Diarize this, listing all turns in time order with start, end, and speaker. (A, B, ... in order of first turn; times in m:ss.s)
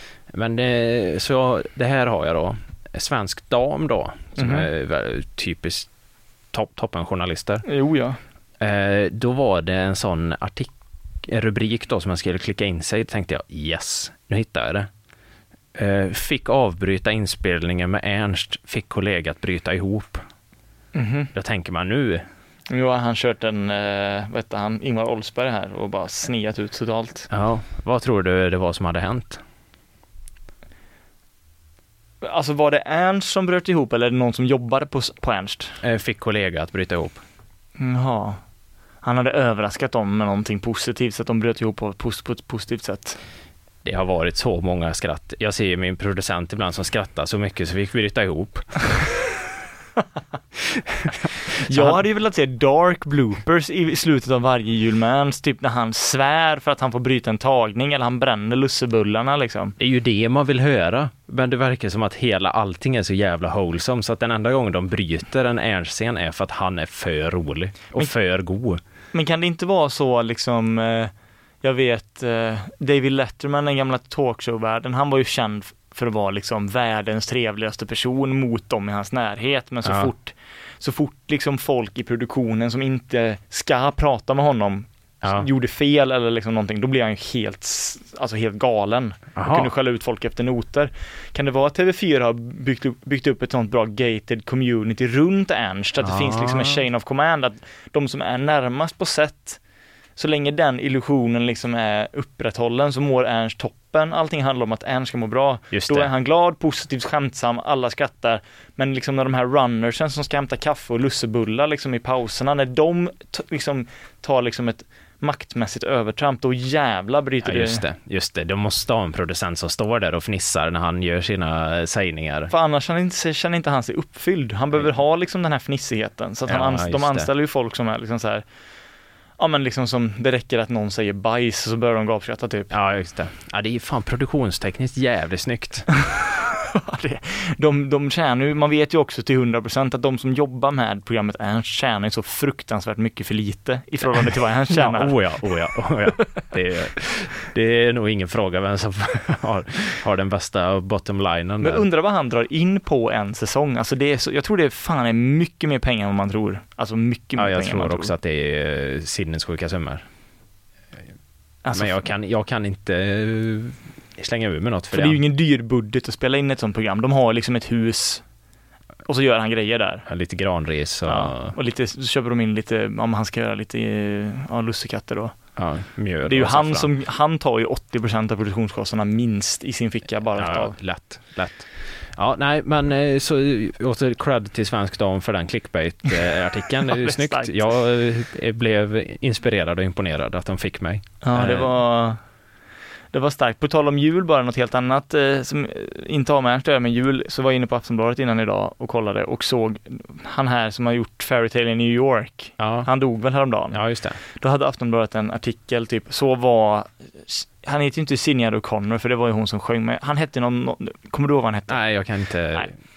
0:00.3-0:05.9 A
0:04.4-0:04.7 B
0:06.5-0:07.6 A
0:07.6-0:08.2 B
0:08.6-0:10.7 A
0:11.2-0:14.9 A
0:15.8-0:20.2 A
0:20.9-0:21.3 B
0:21.3-0:22.2 A
0:22.7-0:27.3 B
0:27.3-0:29.4 A
0:32.2-0:35.8 B
0:35.8-0:37.2 A
0:37.8-0:38.4 B
0:39.0-0:43.2 B
0:43.8-0:49.1 A
0:50.7-0:52.0 A
0:51.6-0:59.8 B
0:59.8-1:08.8 A
1:09.1-1:39.6 B
1:19.8-1:20.1 A
1:25.2-1:25.5 A
1:29.4-1:29.7 A
1:36.0-1:36.8 A
1:40.2-1:57.8 B
1:45.7-1:46.1 A
1:57.4-2:02.5 A
2:02.5-2:08.4 B
2:06.5-2:07.3 A
2:09.4-2:12.7 B
2:12.7-2:15.9 A
2:16.3-2:25.2 B
2:24.7-2:31.8 A
2:31.6-2:38.1 B
2:37.4-2:40.0 A
2:41.6-2:42.0 B
2:41.7-2:45.2 A
2:44.9-2:48.2 B
2:49.1-2:50.0 B
2:50.1-2:51.6 A
2:51.1-2:55.4 B
2:55.6-2:56.9 A
2:56.2-3:00.8 B
3:00.4-3:11.8 A
3:06.8-3:07.7 B
3:11.2-3:12.2 B
3:13.1-3:31.8 B
3:22.6-3:22.9 A
3:23.7-3:24.2 A
3:31.7-3:32.7 A